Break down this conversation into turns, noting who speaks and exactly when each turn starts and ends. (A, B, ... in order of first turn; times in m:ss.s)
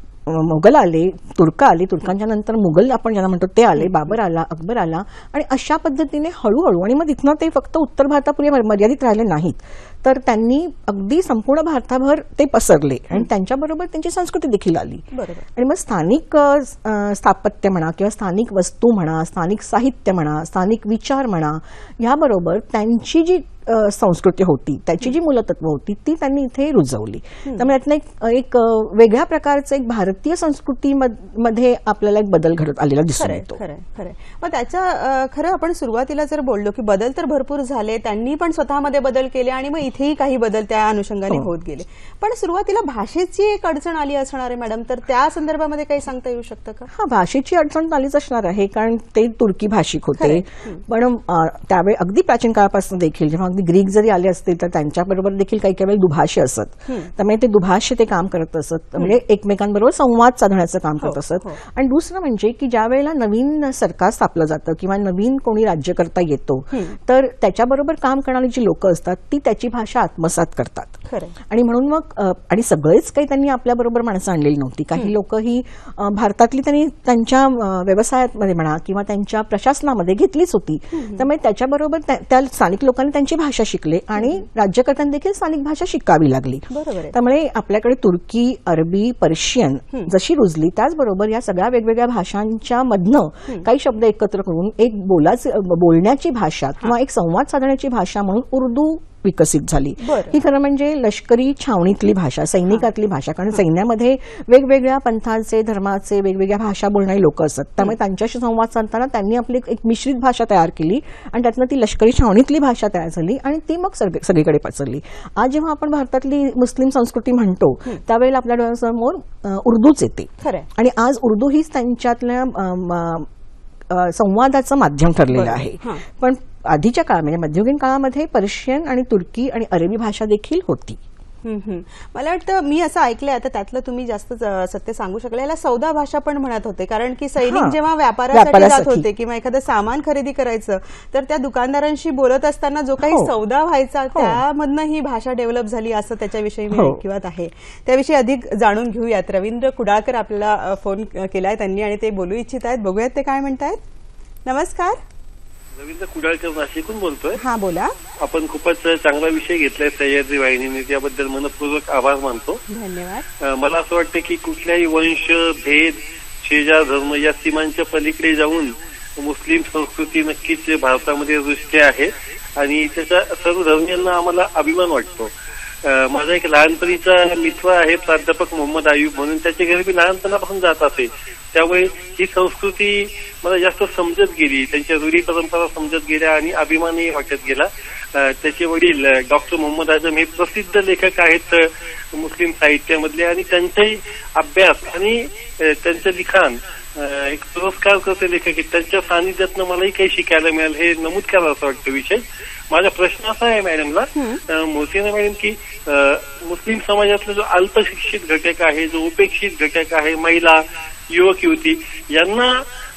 0:00.2-0:33.6 A
0:15.1-0:15.4 B
0:33.2-0:46.9 B
0:46.9-2:03.3 A
0:50.2-0:50.8 B
1:01.0-1:01.6 B
1:11.1-1:11.3 B
1:20.9-1:21.3 B
1:24.2-1:24.4 B
1:26.7-1:27.1 B
1:40.0-1:40.4 B
2:00.4-2:00.7 B
2:03.9-2:11.0 A
2:05.3-2:06.0 B
2:11.4-2:33.8 B
2:17.4-2:17.8 A
2:18.3-2:19.1 A
2:23.0-2:23.3 A
2:24.1-2:24.4 A
2:26.7-2:27.0 A
2:34.4-2:35.0 B
2:35.8-2:37.4 C
2:37.4-2:37.9 B
2:38.2-2:42.6 C
2:42.7-2:43.2 B
2:43.4-2:55.3 C
2:55.8-3:32.6 C